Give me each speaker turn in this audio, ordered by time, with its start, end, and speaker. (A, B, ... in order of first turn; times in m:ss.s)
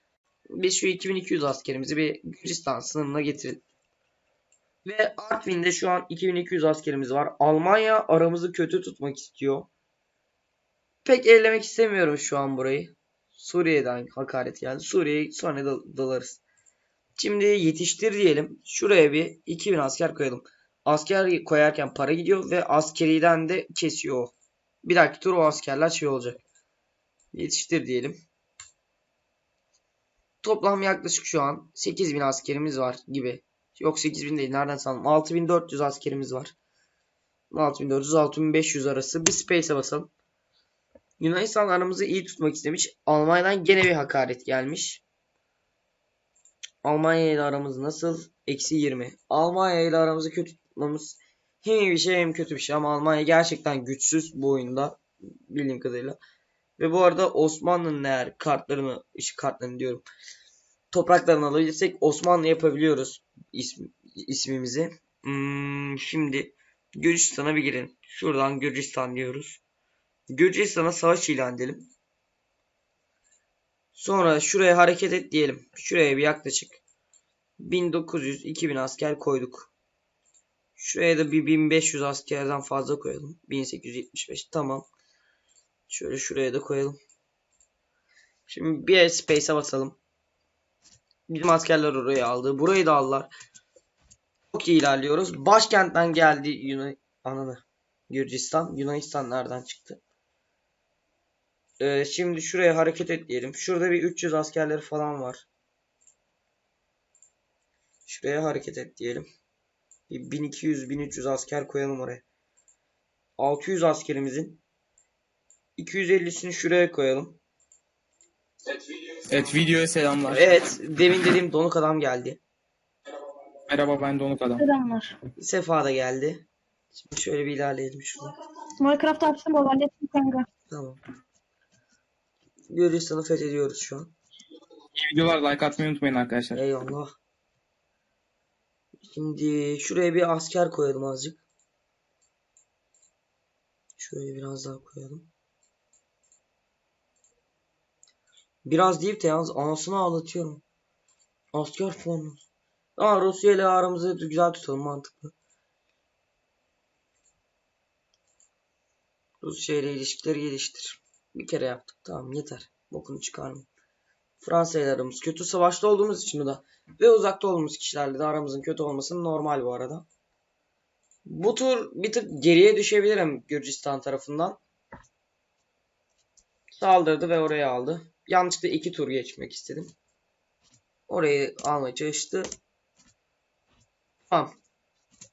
0:00.6-0:03.6 A
0:04.8-0:09.7 A
0:11.0-0:16.4 A
0:17.2-0:26.4 A
0:27.3-0:28.2 A
0:30.4-0:36.5 A
0:37.5-0:40.1 A
0:41.2-0:45.0 A
0:46.8-0:56.2 A
0:56.8-1:00.0 A
1:00.9-1:09.6 A
1:10.3-1:11.9 A
1:13.9-1:16.8 A
1:17.6-1:19.7 A
1:20.8-1:24.9 A
1:25.9-1:27.0 A
1:28.5-1:30.0 A
1:31.3-1:33.3 A
1:34.5-1:40.0 A
1:41.8-1:45.5 A
1:48.0-1:49.2 A
1:50.1-1:52.2 A
1:53.4-1:54.6 A
1:55.8-1:57.4 A
1:59.3-2:00.5 B
2:00.3-2:02.4 A
2:03.7-2:04.6 B
2:04.6-2:05.1 C
2:05.4-2:08.3 A
2:08.8-2:10.4 C
2:10.7-2:11.0 A
2:12.7-2:14.1 A
2:15.0-2:16.6 B
2:16.5-2:17.2 A
2:19.0-2:21.4 A
2:24.0-2:25.3 A
2:28.6-2:30.6 A
2:31.5-2:32.4 A
2:33.0-2:35.3 A
2:39.4-2:43.7 A
2:44.4-2:50.0 A
2:51.2-2:54.6 A
2:56.7-2:59.9 A
3:01.1-3:02.5 A
3:04.3-3:04.5 A